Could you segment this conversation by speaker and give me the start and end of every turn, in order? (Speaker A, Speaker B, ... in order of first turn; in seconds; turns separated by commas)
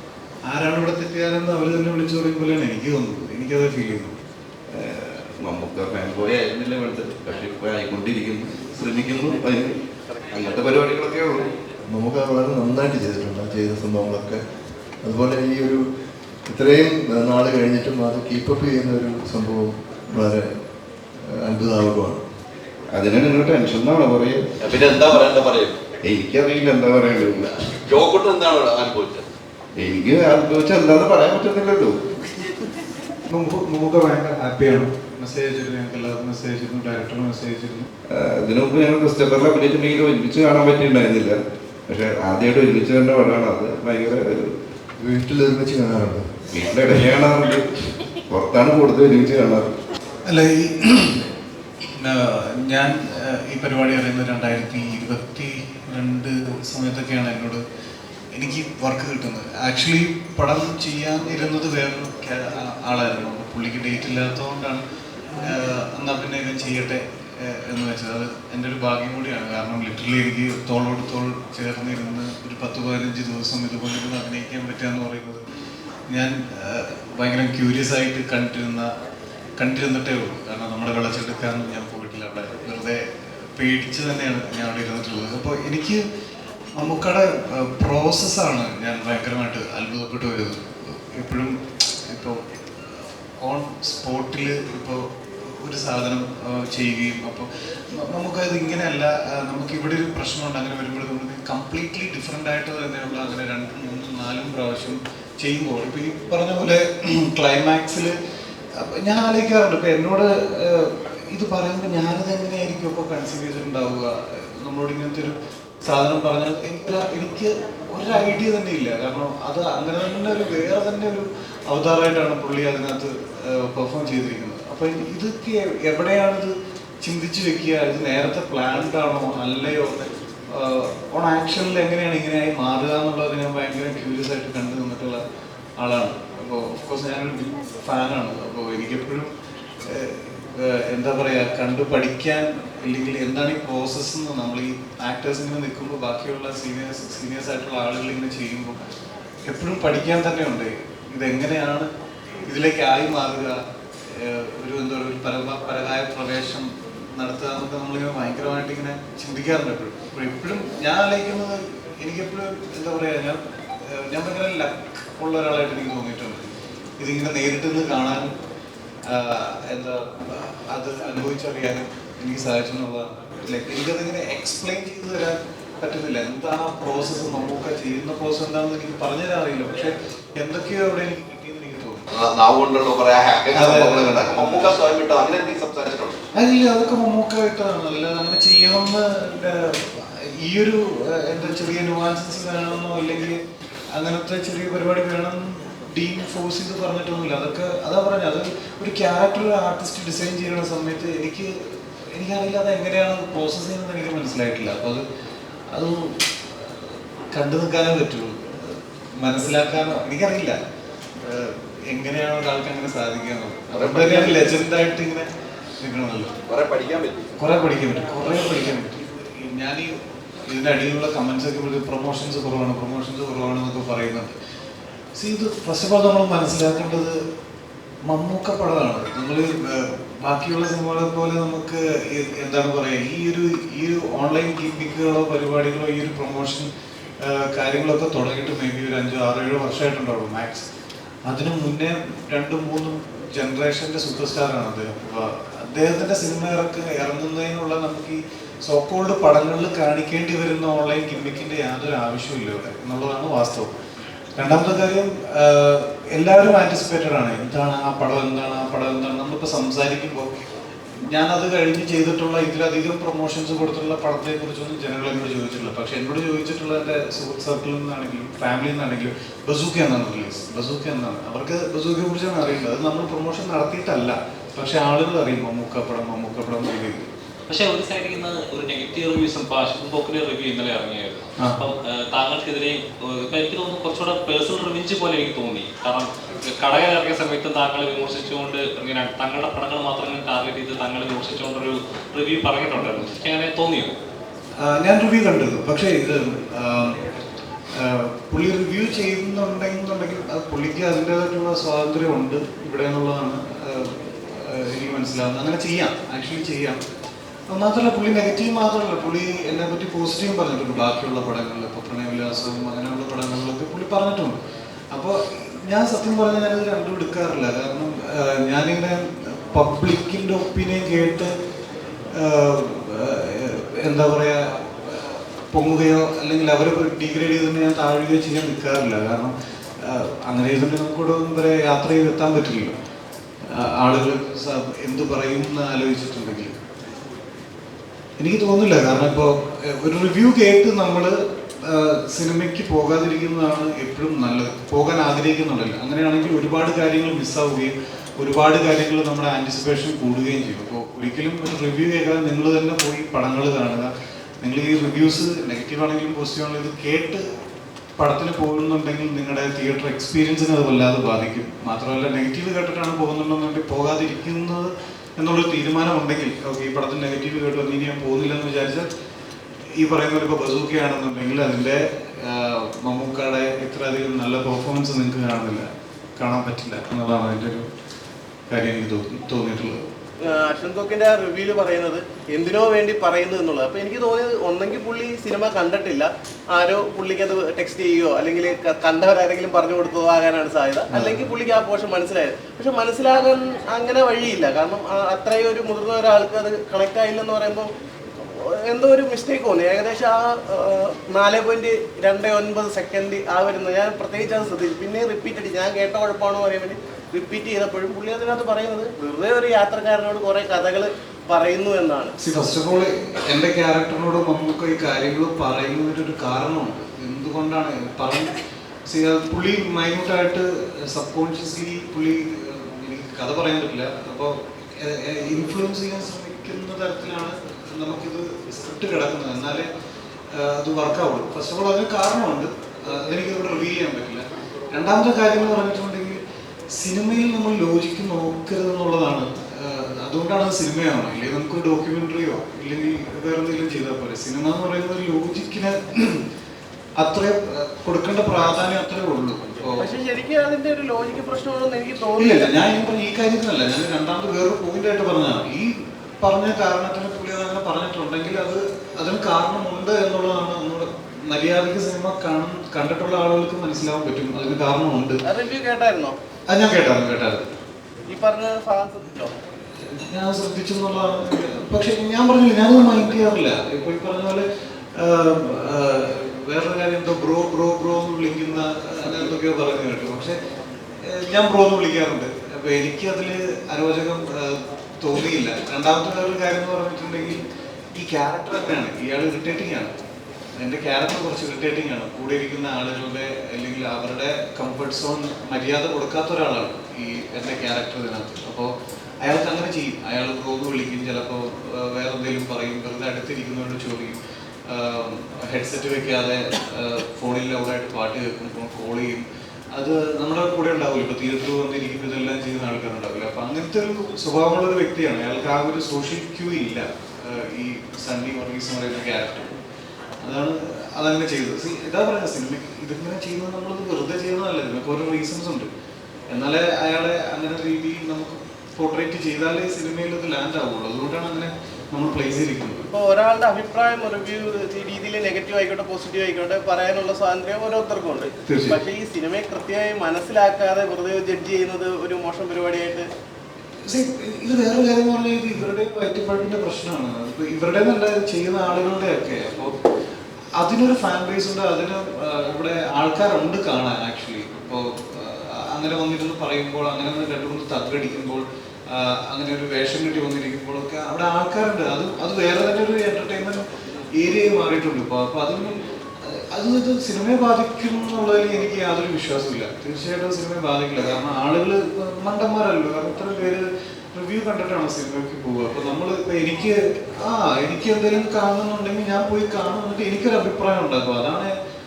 Speaker A: 0.5-4.2, Speaker B: 4.7-9.8, Speaker B: 10.3-11.5, Speaker C: 11.9-14.4, Speaker C: 15.0-15.8, Speaker C: 16.5-20.5, Speaker C: 21.2-22.2, Speaker B: 22.9-24.4, Speaker D: 24.6-25.8, Speaker B: 26.1-27.6, Speaker D: 27.9-29.2, Speaker B: 29.8-31.9, Speaker A: 33.3-37.9, Speaker B: 38.1-41.4, Speaker B: 41.9-44.5, Speaker C: 45.0-46.3, Speaker B: 46.5-49.7, Speaker A: 50.3-51.1, Speaker A: 52.0-57.6, Speaker A: 58.3-64.8, Speaker A: 65.4-75.4, Speaker A: 76.1-78.9, Speaker A: 79.6-83.0, Speaker A: 83.6-86.0, Speaker A: 86.8-92.4, Speaker A: 93.4-108.1, Speaker A: 108.8-115.3, Speaker A: 115.8-135.2, Speaker A: 135.8-139.3, Speaker A: 139.9-148.8, Speaker A: 149.5-151.9, Speaker A: 152.4-166.4, Speaker A: 167.0-168.3, Speaker A: 169.1-182.0, Speaker D: 182.1-186.2, Speaker A: 183.5-184.7, Speaker A: 186.3-193.4, Speaker A: 193.9-201.6, Speaker A: 202.1-205.0, Speaker A: 205.7-206.2, Speaker A: 207.3-210.6, Speaker A: 211.2-215.3, Speaker D: 213.7-214.5, Speaker A: 215.8-216.3, Speaker D: 216.5-217.3, Speaker A: 217.4-219.9, Speaker A: 220.5-224.3, Speaker A: 225.2-227.2, Speaker A: 228.1-236.7, Speaker A: 237.2-240.6, Speaker A: 241.3-253.7, Speaker A: 254.4-260.3, Speaker A: 261.1-277.1, Speaker E: 277.5-293.9, Speaker A: 294.6-297.0, Speaker A: 297.8-306.8, Speaker A: 307.5-314.4, Speaker A: 314.9-321.3, Speaker A: 322.1-329.3, Speaker A: 329.8-332.8, Speaker A: 333.5-336.6, Speaker A: 338.2-353.9, Speaker A: 354.4-357.2, Speaker A: 358.0-368.9, Speaker A: 369.8-377.7, Speaker A: 378.5-379.8, Speaker F: 380.2-397.7, Speaker A: 390.9-391.2, Speaker F: 398.3-412.1, Speaker A: 412.2-429.7, Speaker A: 430.3-436.2, Speaker A: 436.7-446.2, Speaker A: 447.0-449.8, Speaker F: 449.8-452.5, Speaker A: 452.2-465.2, Speaker F: 465.2-466.1, Speaker A: 466.5-467.4, Speaker F: 468.1-469.3, Speaker A: 469.9-474.4, Speaker A: 474.9-480.4, Speaker A: 481.0-487.4, Speaker A: 487.9-489.9, Speaker A: 490.6-498.7, Speaker A: 499.2-504.1, Speaker A: 504.7-519.5, Speaker A: 520.2-525.7, Speaker A: 526.3-532.8, Speaker F: 532.9-543.1, Speaker A: 538.5-538.8, Speaker A: 543.9-549.7, Speaker A: 550.6-563.6, Speaker A: 564.2-581.5